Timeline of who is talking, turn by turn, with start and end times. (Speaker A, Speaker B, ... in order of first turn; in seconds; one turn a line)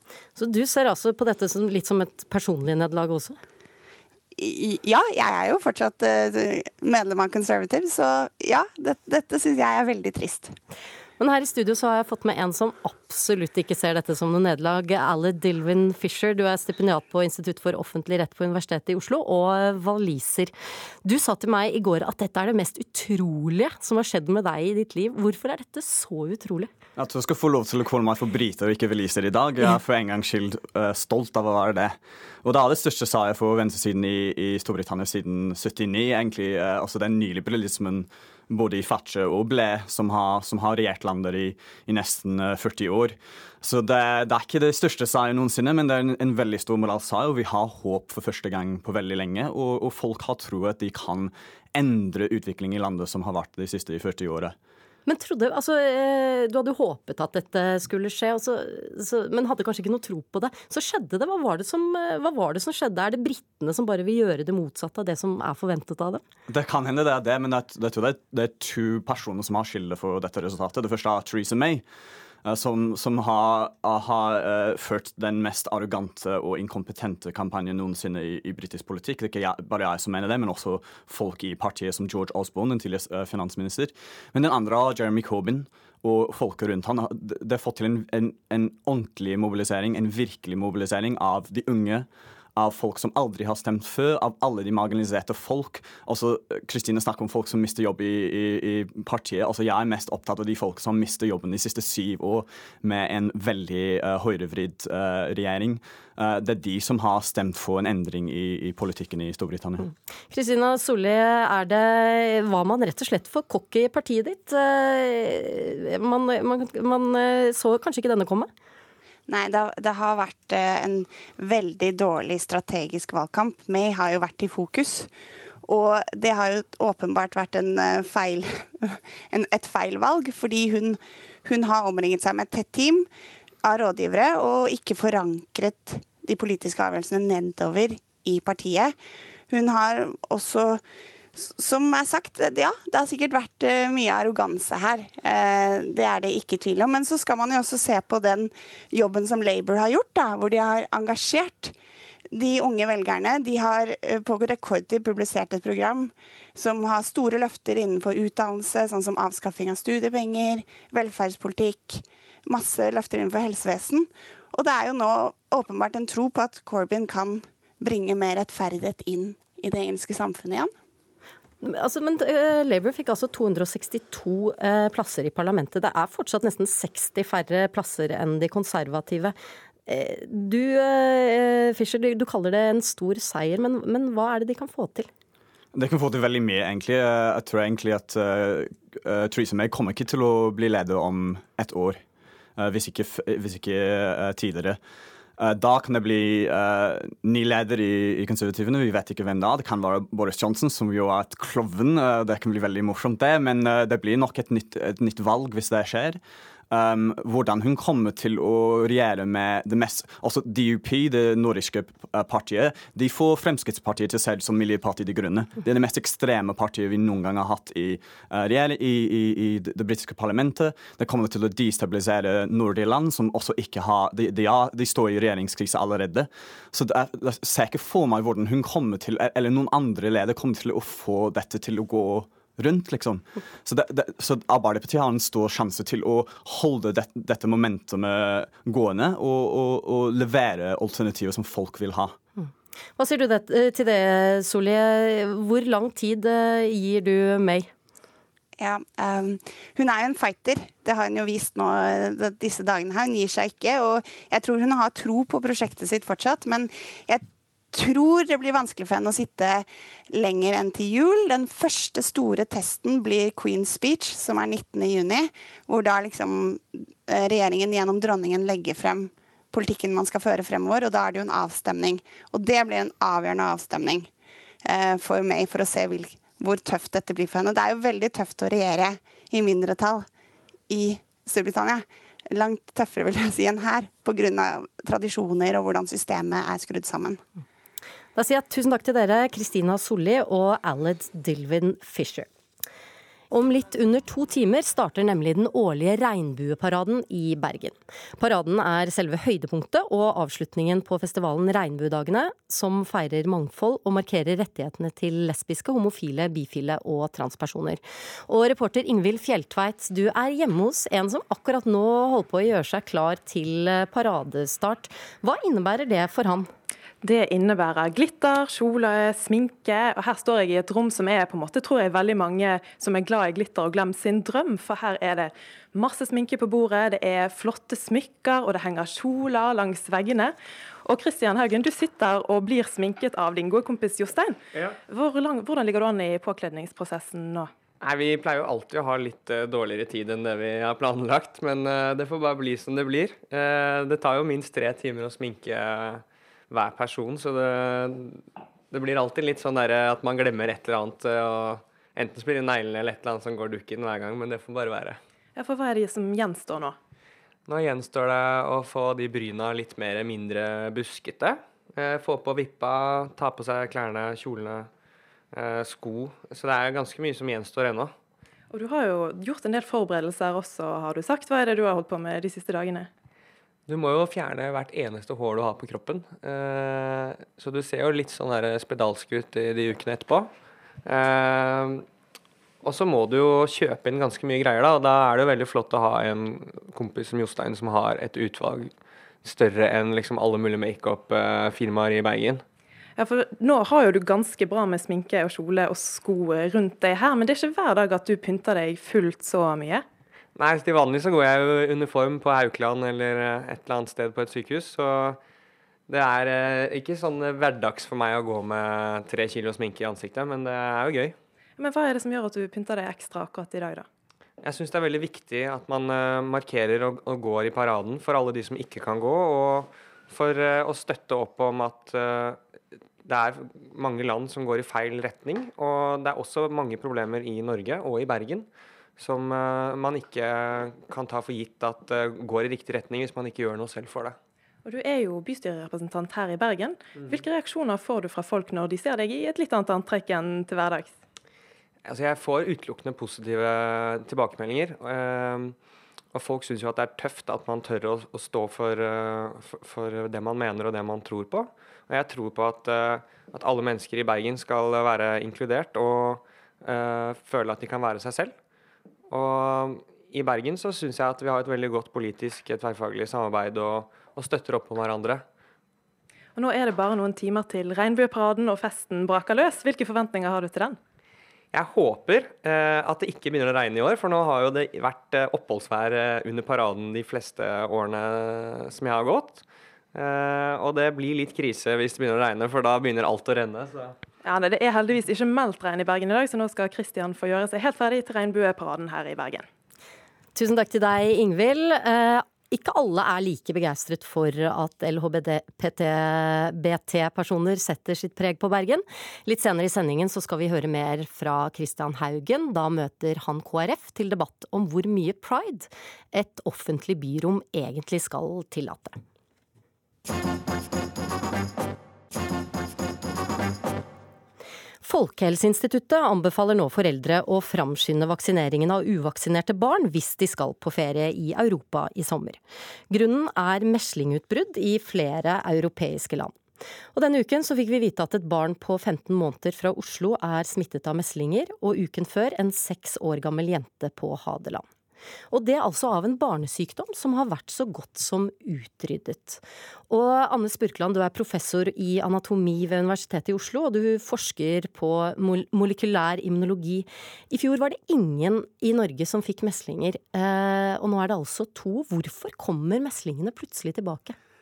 Speaker A: 0.3-3.4
Speaker B: 4.3-10.5
Speaker A: 11.2-20.5
Speaker A: 21.0-26.7
Speaker C: 26.9-54.5
Speaker A: 55.0-66.2
Speaker C: 66.5-71.8
Speaker C: 72.4-109.9
Speaker A: 110.3-118.5
Speaker B: 119.3-125.1
Speaker B: 125.6-133.1
Speaker B: 133.6-138.9
Speaker B: 139.5-140.8
Speaker B: 141.3-151.7
Speaker B: 152.3-170.7
Speaker A: 171.6-179.3
Speaker A: 179.8-185.1
Speaker C: 185.7-192.0
Speaker C: 192.6-194.8
Speaker C: 195.4-242.2
Speaker A: 242.4-247.7
Speaker B: 248.6-274.1
Speaker B: 274.6-280.1
Speaker B: 280.7-287.2
Speaker A: 288.1-292.3
Speaker A: 293.3-316.5
Speaker D: 317.0-337.5
Speaker E: 337.8-355.0
Speaker D: 355.4-356.8
Speaker E: 357.5-364.7
Speaker E: 365.3-367.9
Speaker D: 368.5-372.9
Speaker E: 373.7-380.3
Speaker E: 380.8-381.9
Speaker E: 382.6-388.7
Speaker E: 389.2-392.4
Speaker D: 393.0-399.8
Speaker E: 400.4-405.2
Speaker E: 405.9-411.2
Speaker D: 411.6-413.9
Speaker E: 414.4-422.4
Speaker E: 423.0-434.2
Speaker D: 434.6-440.9
Speaker E: 436.9-437.2
Speaker E: 441.8-445.6
Speaker E: 446.1-458.4
Speaker E: 459.1-465.2
Speaker D: 466.4-470.8
Speaker E: 471.5-479.4
Speaker E: 479.9-484.0
Speaker D: 484.2-489.5
Speaker A: 490.3-509.0
Speaker A: 514.8-526.4
Speaker A: 526.9-534.6
Speaker A: 535.3-554.1